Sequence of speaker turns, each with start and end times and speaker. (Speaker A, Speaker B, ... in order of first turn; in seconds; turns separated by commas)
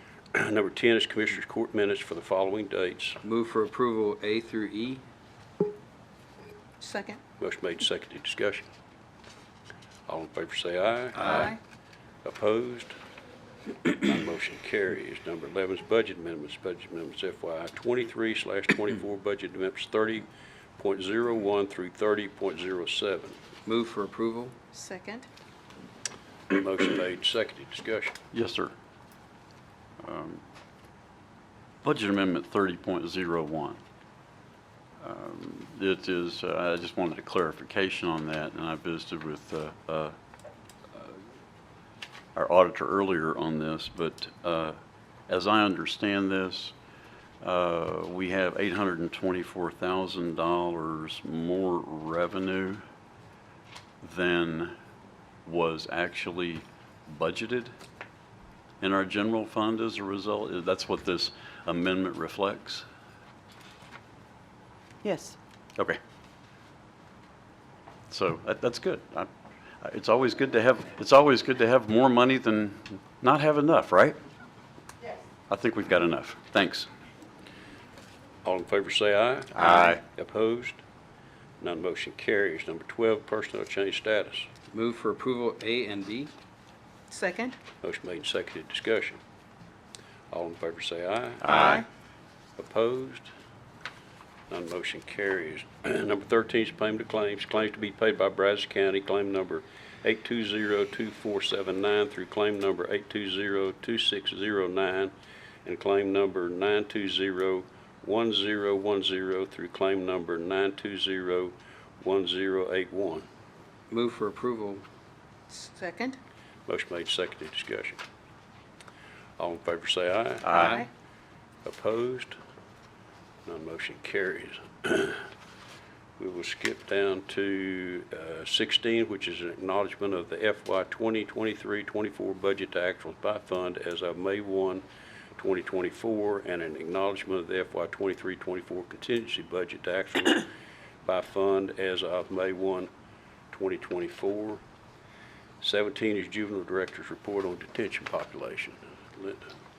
Speaker A: 0.3-3.2, Speaker B: 3.2-5.0, Speaker C: 6.8-7.2, Speaker A: 7.4-8.7, Speaker A: 10.1-11.6, Speaker C: 11.3-11.6, Speaker A: 12.2-12.9, Speaker A: 13.9-20.3, Speaker A: 20.8-23.4, Speaker B: 23.6-24.5, Speaker C: 24.7-25.3, Speaker A: 26.5-28.2, Speaker D: 28.3-28.7, Speaker D: 30.0-30.4, Speaker D: 31.8-33.8, Speaker D: 35.0-40.1, Speaker D: 40.9-41.2, Speaker D: 42.4-44.8, Speaker D: 45.3-46.7, Speaker D: 47.4-52.8, Speaker D: 54.0-54.8, Speaker D: 55.5-57.7, Speaker D: 58.8-62.9, Speaker D: 68.1-69.3, Speaker D: 69.8-74.2, Speaker D: 75.5-76.9, Speaker A: 78.4-80.8, Speaker D: 79.5-80.0, Speaker A: 81.6-84.5, Speaker B: 84.7-86.3, Speaker C: 87.1-87.6, Speaker A: 87.8-89.2, Speaker A: 90.3-91.8, Speaker D: 91.4-91.8, Speaker C: 91.5-91.8, Speaker A: 92.6-93.3, Speaker A: 94.5-105.1, Speaker A: 105.7-113.3, Speaker B: 113.9-114.8, Speaker C: 115.5-116.2, Speaker A: 116.7-118.0, Speaker A: 119.4-120.8, Speaker C: 120.5-120.9, Speaker A: 121.7-122.4, Speaker A: 123.5-125.2, Speaker A: 126.2-134.8, Speaker A: 135.4-140.5, Speaker A: 141.0-142.9, Speaker A: 143.5-144.6, Speaker A: 145.6-149.4